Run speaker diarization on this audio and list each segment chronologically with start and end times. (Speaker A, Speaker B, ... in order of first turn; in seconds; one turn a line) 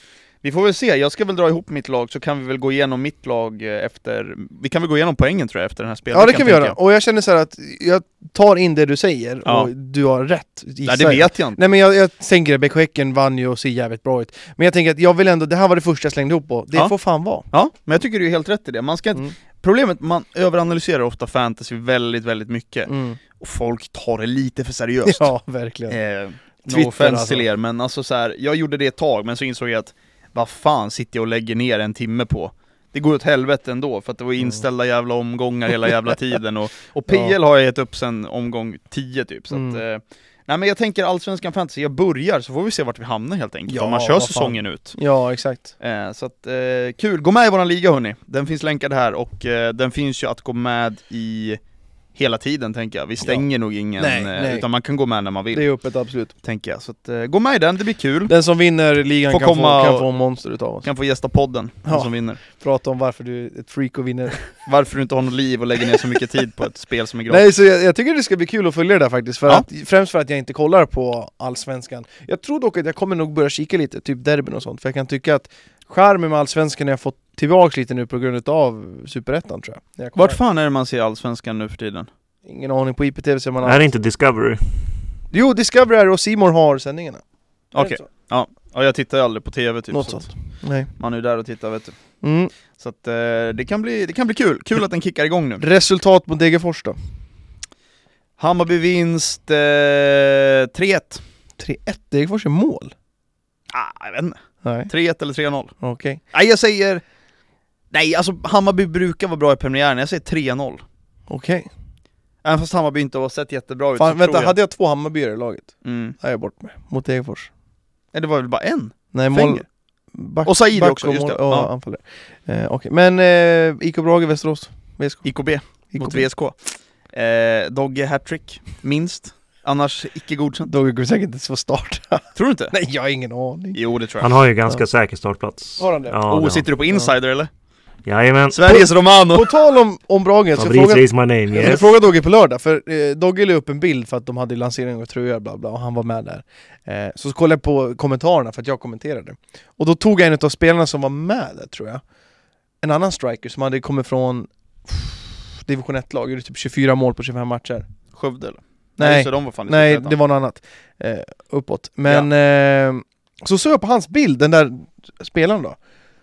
Speaker A: 0.4-6.8
Speaker B: 6.1-17.4
Speaker A: 10.8-11.6
Speaker A: 17.4-25.3
Speaker B: 22.9-23.2
Speaker B: 25.1-26.0
Speaker A: 25.9-45.0
Speaker B: 26.7-27.5
Speaker B: 37.1-37.3
Speaker B: 39.5-39.8
Speaker B: 43.7-45.7
Speaker A: 45.8-51.6
Speaker A: 52.1-58.4
Speaker B: 53.2-54.7
Speaker B: 55.5-56.3
Speaker B: 58.3-60.9
Speaker A: 59.3-60.1
Speaker A: 60.8-62.4
Speaker B: 61.8-64.5
Speaker A: 64.5-67.5
Speaker B: 67.3-80.4
Speaker A: 80.2-82.1
Speaker B: 82.4-83.8
Speaker C: 83.6-84.9
Speaker B: 85.3-87.2
Speaker A: 87.7-95.6
Speaker B: 87.8-88.0
Speaker B: 89.9-90.9
Speaker B: 92.2-92.5
Speaker B: 95.6-97.0
Speaker A: 98.4-101.2
Speaker B: 101.6-102.9
Speaker A: 103.7-105.8
Speaker B: 104.6-104.9
Speaker B: 105.8-106.2
Speaker A: 106.3-107.0
Speaker A: 107.9-110.8
Speaker B: 111.3-111.7
Speaker A: 112.4-114.5
Speaker B: 114.0-117.5
Speaker A: 115.8-116.2
Speaker A: 118.1-119.7
Speaker B: 119.1-126.3
Speaker A: 120.4-121.7
Speaker A: 125.2-130.7
Speaker B: 130.7-133.8
Speaker A: 132.3-132.7
Speaker A: 133.7-134.3
Speaker C: 134.2-136.7
Speaker B: 135.8-136.2
Speaker A: 136.3-137.5
Speaker C: 138.0-138.6
Speaker A: 138.5-139.5
Speaker B: 138.6-152.0
Speaker C: 140.6-141.9
Speaker B: 152.8-157.9
Speaker A: 158.1-160.2
Speaker B: 159.0-165.8